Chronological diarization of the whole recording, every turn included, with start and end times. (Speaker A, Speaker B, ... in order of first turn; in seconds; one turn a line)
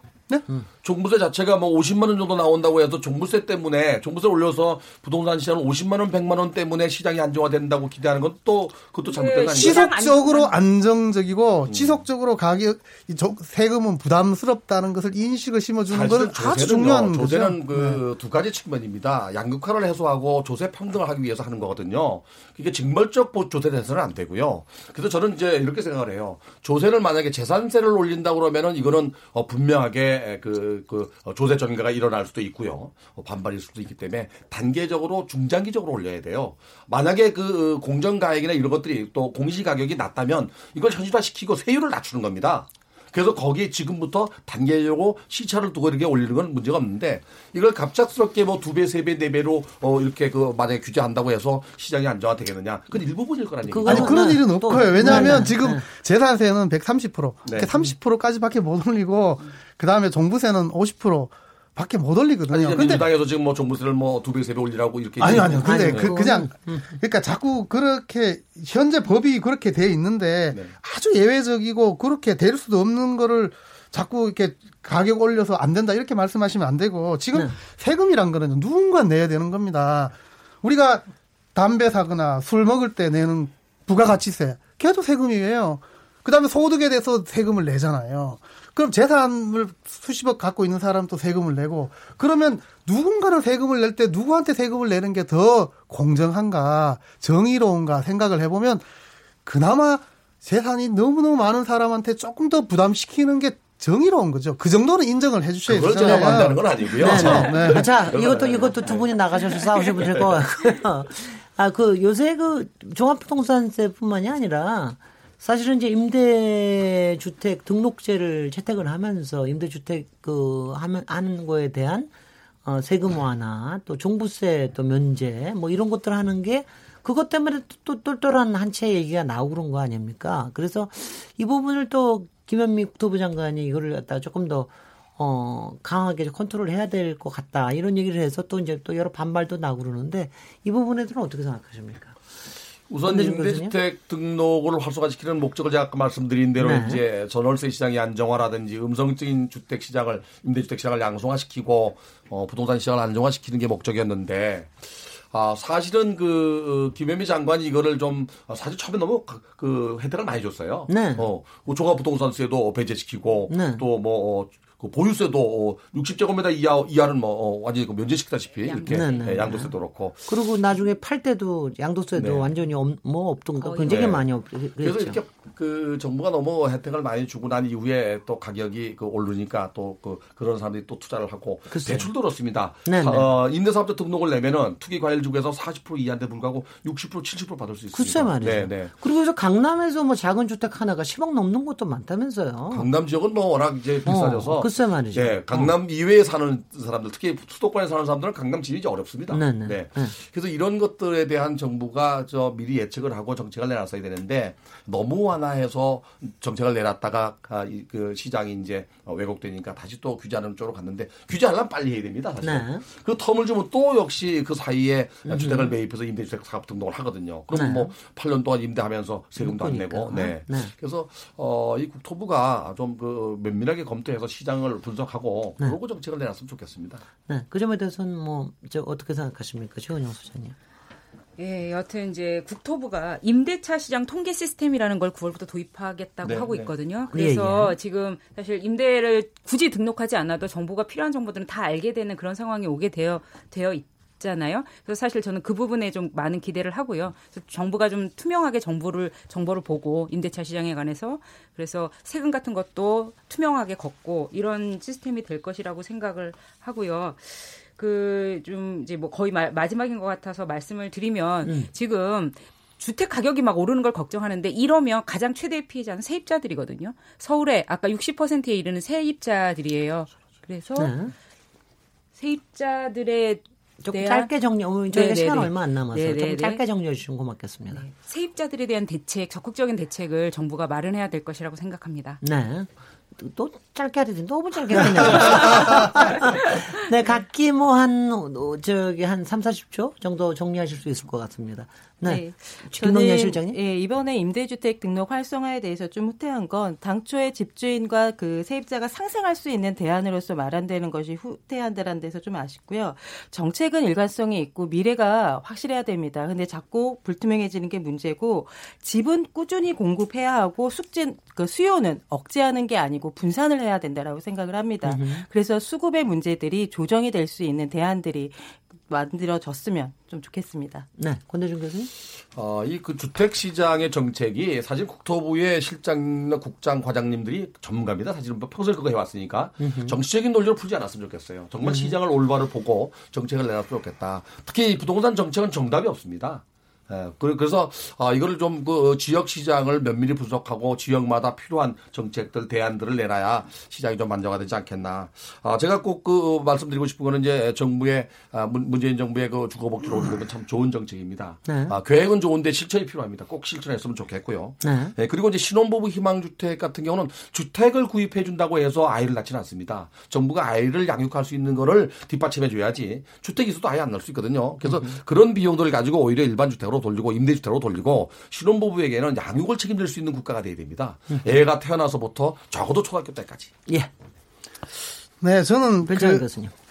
Speaker A: 0.8-9.9
Speaker B: 9.1-10.6
Speaker C: 9.5-18.0
Speaker A: 11.7-12.0
Speaker A: 15.9-54.4
Speaker D: 53.6-55.9
Speaker C: 53.9-63.1
Speaker A: 55.0-55.5
Speaker A: 57.5-57.8
Speaker A: 62.5-66.2
Speaker C: 65.2-98.8
Speaker D: 65.3-67.0
Speaker A: 70.5-70.8
Speaker C: 99.5-107.9
Speaker A: 105.7-110.3
Speaker D: 106.0-122.1
Speaker D: 122.6-142.2
Speaker A: 142.9-170.2
Speaker D: 143.1-143.8
Speaker D: 146.6-147.0
Speaker D: 160.9-161.3
Speaker D: 163.5-163.8
Speaker B: 168.7-169.4
Speaker D: 168.9-169.8
Speaker D: 170.3-175.2
Speaker A: 172.2-172.5
Speaker B: 173.6-174.1
Speaker A: 173.9-174.2
Speaker A: 174.8-188.9
Speaker D: 181.7-182.1
Speaker D: 182.9-183.3
Speaker D: 187.9-192.9
Speaker A: 192.7-227.1
Speaker D: 194.1-195.7
Speaker D: 199.3-200.2
Speaker D: 212.4-212.8
Speaker D: 215.3-215.7
Speaker D: 217.5-217.9
Speaker D: 219.4-220.7
Speaker D: 227.3-230.6
Speaker B: 231.4-270.9
Speaker A: 236.2-236.7
Speaker D: 237.1-237.8
Speaker D: 261.4-261.7
Speaker D: 270.8-271.1
Speaker B: 272.2-274.3
Speaker D: 273.8-277.9
Speaker B: 274.9-276.6
Speaker B: 277.7-282.2
Speaker D: 282.2-293.6
Speaker E: 292.0-320.9
Speaker D: 314.9-315.3
Speaker D: 321.0-321.9
Speaker A: 322.3-373.5
Speaker D: 329.6-330.0
Speaker D: 331.6-331.9
Speaker D: 351.5-351.8
Speaker D: 354.6-354.9
Speaker D: 364.6-365.0
Speaker D: 371.1-371.4
Speaker C: 375.2-376.3
Speaker D: 375.9-376.5